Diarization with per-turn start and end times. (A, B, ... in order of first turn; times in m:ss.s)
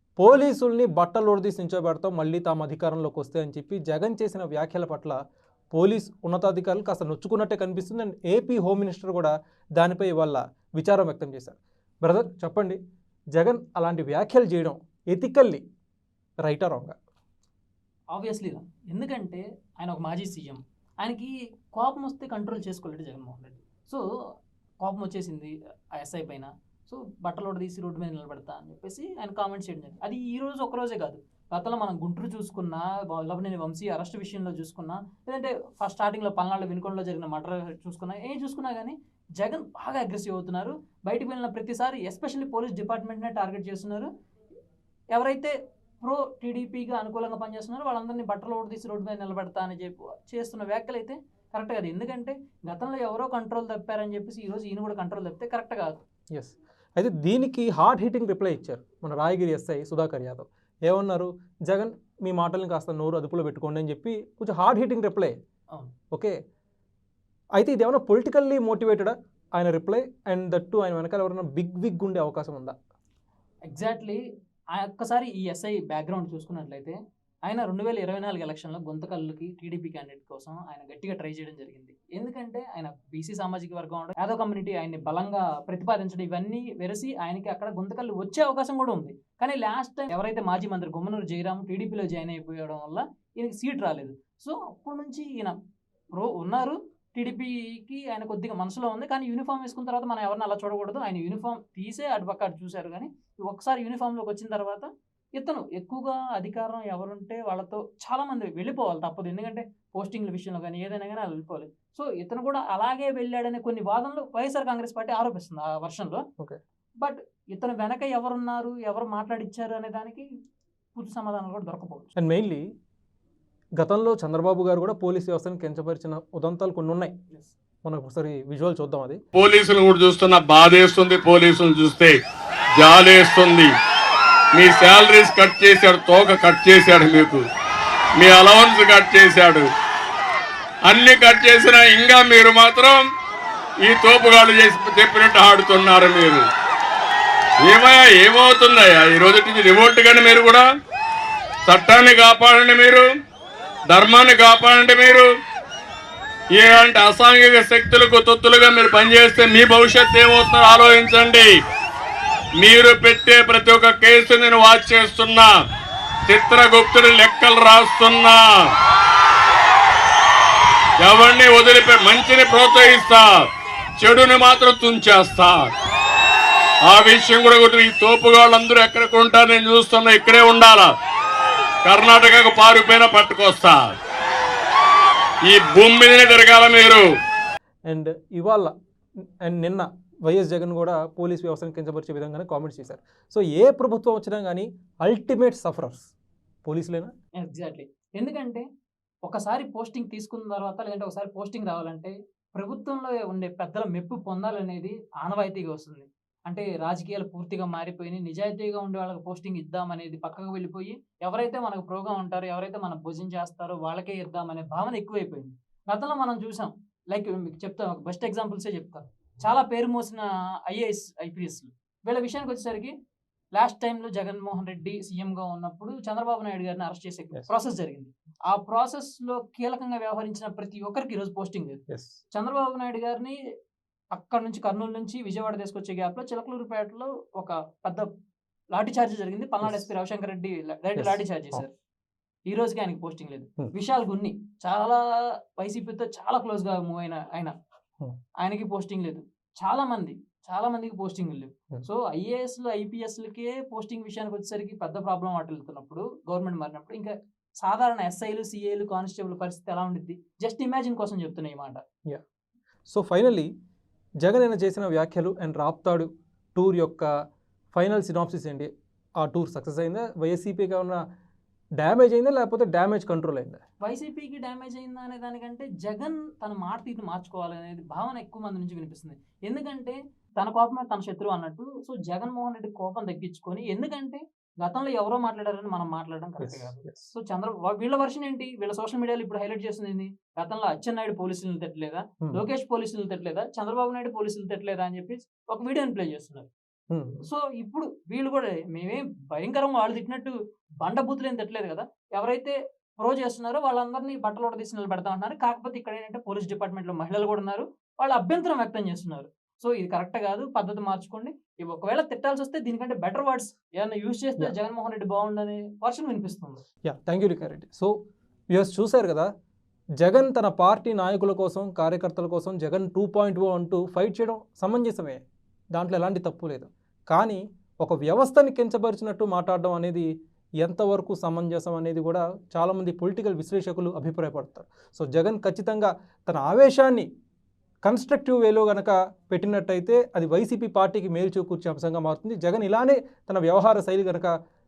0:00.2-0:05.2 A
0:05.7-0:12.8 A
0:13.3-0:15.6 A
0:16.4-0:16.9 A
0:18.1-0:24.0 B
0:24.8-0:44.1 B
0:45.1-0:56.0 B
0:56.3-1:05.3 A
1:07.6-1:12.7 A
1:13.7-1:14.2 B
1:14.7-1:35.5 B
1:36.2-1:56.2 B
1:57.0-2:00.2 B
2:01.0-2:02.1 B
2:02.2-2:02.6 A
2:03.8-2:07.1 A
2:07.8-2:09.2 A
2:09.3-2:12.2 C
2:12.8-2:13.7 C
2:14.5-2:17.4 C
2:18.2-2:19.7 C
2:20.8-2:23.0 C
2:23.8-2:26.5 C
2:27.6-2:30.6 C
2:31.6-2:33.0 C
2:33.9-2:35.3 C
2:36.5-2:41.5 C
2:42.6-2:45.5 C
2:46.3-2:48.7 C
2:51.0-2:53.4 C
2:54.0-2:55.7 C
2:56.8-3:00.9 C
3:01.8-3:04.0 C
3:05.5-3:07.0 C
3:07.9-3:08.7 A
3:09.4-3:16.1 A
3:16.6-3:17.1 A
3:17.4-3:18.6 B
3:19.2-3:42.9 B
3:43.6-3:51.8 B
3:51.9-3:52.2 A
3:52.3-3:53.3 B
3:54.1-3:58.0 B
3:58.7-4:01.7 B
4:01.0-4:01.6 A
4:02.5-4:05.0 B
4:05.6-4:07.5 B
4:08.4-4:21.8 B
4:22.9-4:23.5 A
4:24.2-4:27.1 A
4:27.7-4:31.0 A
4:31.8-4:33.6 A
4:33.8-4:56.5 B
4:46.4-4:47.1 A
4:56.9-4:57.2 A
4:57.3-5:16.6 B
5:16.8-5:17.9 A
5:18.5-5:19.3 A
5:20.0-5:25.2 A
5:25.7-5:30.1 A
5:30.6-5:37.1 A
5:37.8-5:44.3 A